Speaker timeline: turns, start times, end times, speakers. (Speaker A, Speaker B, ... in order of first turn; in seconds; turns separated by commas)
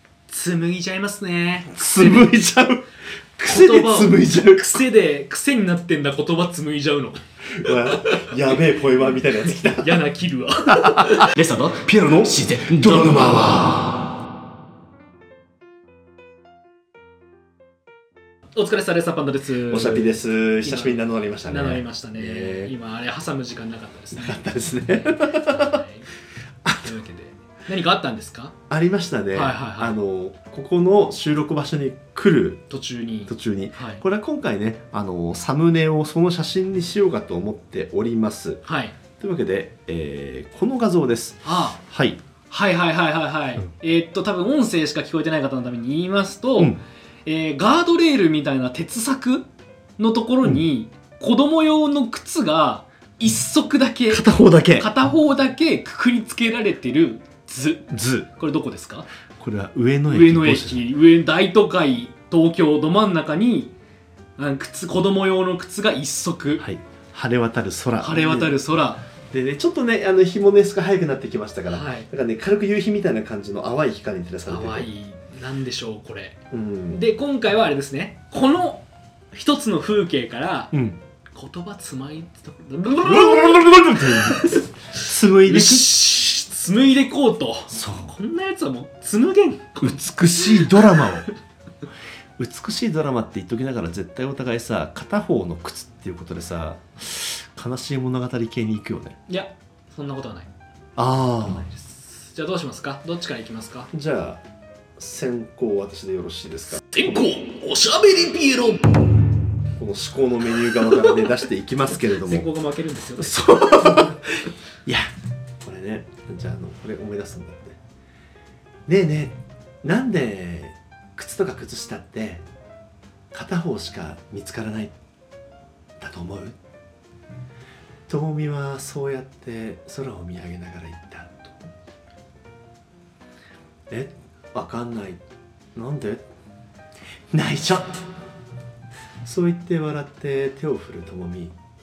Speaker A: 0.3-2.4, Speaker B: 1.7-2.9, Speaker B: 3.4-4.9, Speaker A: 3.5-8.6, Speaker B: 7.6-10.0, Speaker A: 9.5-11.5, Speaker B: 10.7-14.1, Speaker A: 12.7-13.5, Speaker A: 18.6-26.1, Speaker B: 19.7-22.7, Speaker B: 24.1-25.8, Speaker B: 26.6-26.9, Speaker A: 26.8-28.6, Speaker B: 28.7-32.6, Speaker A: 29.3-30.0, Speaker A: 32.7-34.0, Speaker B: 33.3-38.6, Speaker A: 38.6-39.0, Speaker B: 39.2-42.2, Speaker A: 41.4-41.8, Speaker A: 42.5-59.1, Speaker B: 54.1-54.9, Speaker B: 57.9-58.3, Speaker B: 59.4-60.9, Speaker A: 60.1-63.7, Speaker A: 64.4-66.6, Speaker B: 66.6-68.6, Speaker A: 68.0-69.0, Speaker B: 69.3-74.9, Speaker A: 71.7-72.1, Speaker A: 74.5-76.4, Speaker B: 76.5-77.0, Speaker A: 76.9-80.7, Speaker B: 80.7-81.0, Speaker A: 81.3-91.2, Speaker B: 83.0-85.9, Speaker B: 87.7-88.1, Speaker B: 89.8-91.3, Speaker B: 92.4-99.2, Speaker A: 99.3-100.5, Speaker B: 101.0-101.7, Speaker A: 101.4-103.9, Speaker B: 103.9-104.4, Speaker B: 105.0-107.3, Speaker A: 106.9-109.0, Speaker B: 109.8-112.5, Speaker A: 110.6-111.4, Speaker A: 112.0-114.2, Speaker B: 113.2-115.1, Speaker B: 115.6-117.8, Speaker B: 118.9-122.5, Speaker B: 123.3-125.0, Speaker B: 126.0-126.6, Speaker B: 128.1-131.7, Speaker B: 133.9-135.2, Speaker B: 135.8-136.2, Speaker B: 137.3-138.0, Speaker B: 139.2-141.6